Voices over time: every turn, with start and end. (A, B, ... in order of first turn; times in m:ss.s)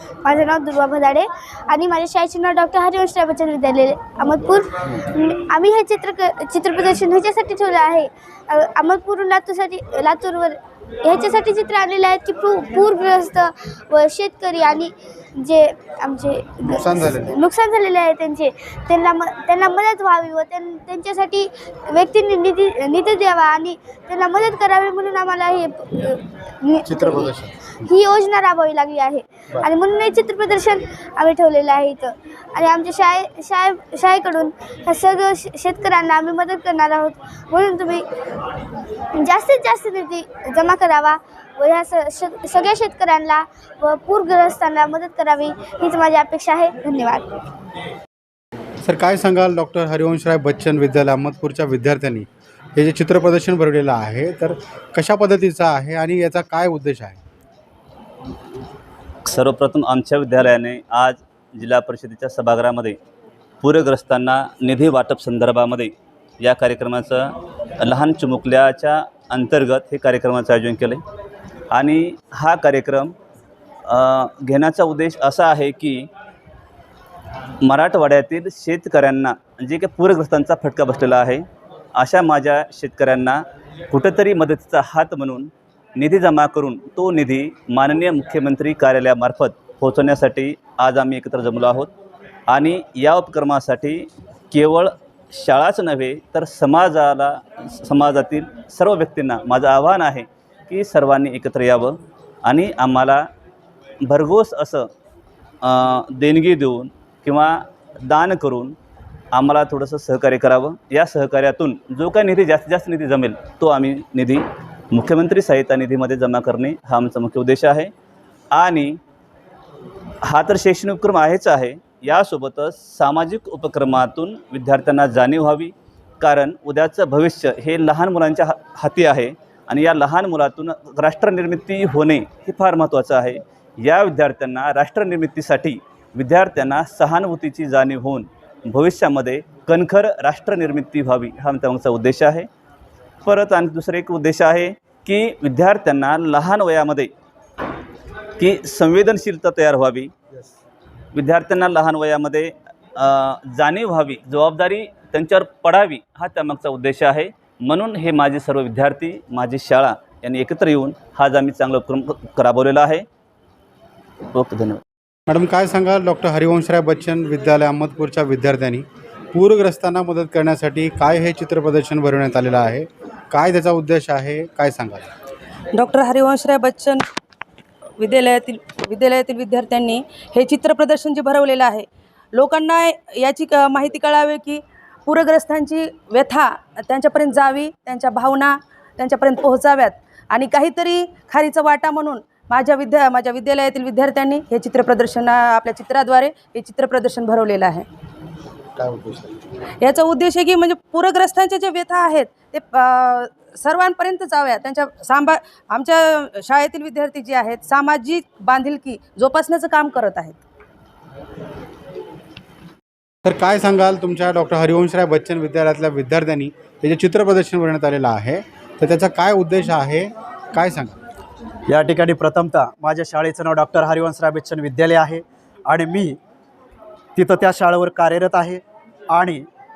0:00.2-0:47.3 A
0:16.8-0:17.3 B
0:27.0-0:27.5 B
0:48.9-0:52.2 B
0:52.8-0:57.1 B
0:59.2-1:03.0 C
1:03.6-1:11.0 C
1:11.7-1:13.1 C
1:13.9-1:16.1 C
1:17.6-1:31.9 C
1:32.5-1:43.3 C
1:44.0-1:44.9 C
1:45.6-1:48.8 C
1:49.3-1:57.9 C
1:58.5-1:59.0 C
2:00.2-2:22.5 C
2:23.2-2:27.1 C
2:28.4-2:30.1 C
2:31.1-2:43.0 C
2:44.3-2:44.8 C
2:45.3-2:48.8 B
2:49.3-2:54.9 B
2:55.7-2:57.0 D
2:58.0-3:17.8 D
3:18.9-3:19.2 B
3:19.8-3:30.4 D
3:33.4-3:40.9 B
3:41.7-3:46.2 E
3:47.1-3:49.4 E